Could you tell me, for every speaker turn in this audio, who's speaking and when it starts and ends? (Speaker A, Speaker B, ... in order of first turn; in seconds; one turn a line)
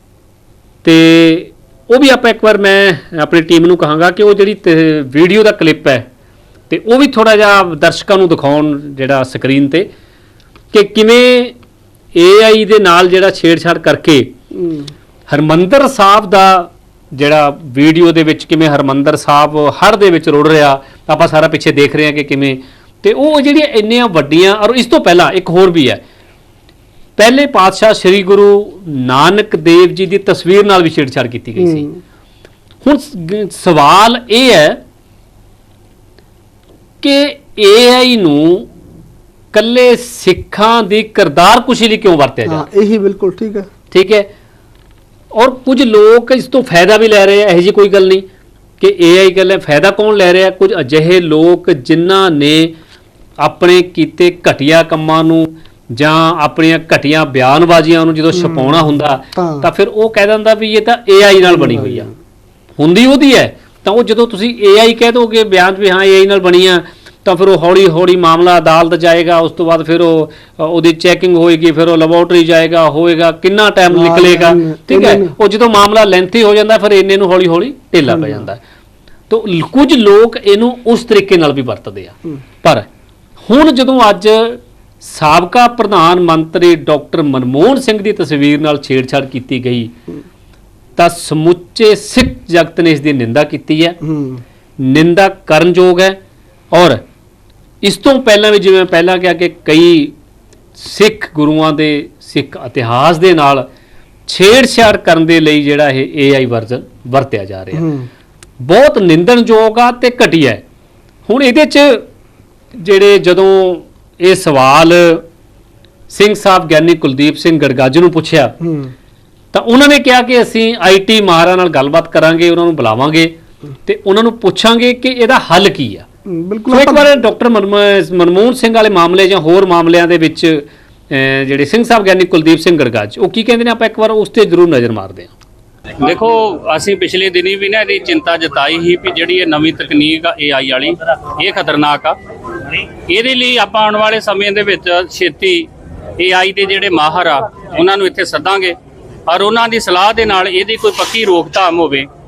Speaker A: 0.8-6.0
Speaker A: 6.7-9.9
Speaker A: 10.7-11.6
Speaker A: 12.1-14.3
Speaker B: 14.5-14.9
Speaker A: 15.3-26.0
Speaker A: 27.2-31.9
Speaker B: 31.6-32.0
Speaker A: 32.8-34.8
Speaker A: 37.0-38.7
Speaker A: 39.5-42.6
Speaker B: 42.5-43.7
Speaker A: 43.9-44.3
Speaker A: 45.3-48.2
Speaker A: 48.8-52.7
Speaker A: 53.4-62.1
Speaker B: 58.3-59.7
Speaker B: 61.4-62.1
Speaker A: 62.8-78.6
Speaker B: 73.9-75.3
Speaker B: 78.1-78.5
Speaker A: 79.3-82.9
Speaker A: 83.5-89.9
Speaker A: 91.0-94.0
Speaker B: 94.0-94.4
Speaker A: 94.8-96.2
Speaker A: 96.7-97.0
Speaker A: 97.8-100.1
Speaker A: 100.8-103.7
Speaker A: 104.3-107.9
Speaker B: 107.7-108.1
Speaker A: 108.6-110.6
Speaker A: 111.3-112.1
Speaker A: 112.8-115.2
Speaker A: 116.1-118.5
Speaker B: 118.6-118.9
Speaker A: 119.5-126.1
Speaker B: 126.2-127.1
Speaker A: 126.7-135.3
Speaker C: 136.0-142.2
Speaker C: 142.7-148.8
Speaker C: 149.3-152.1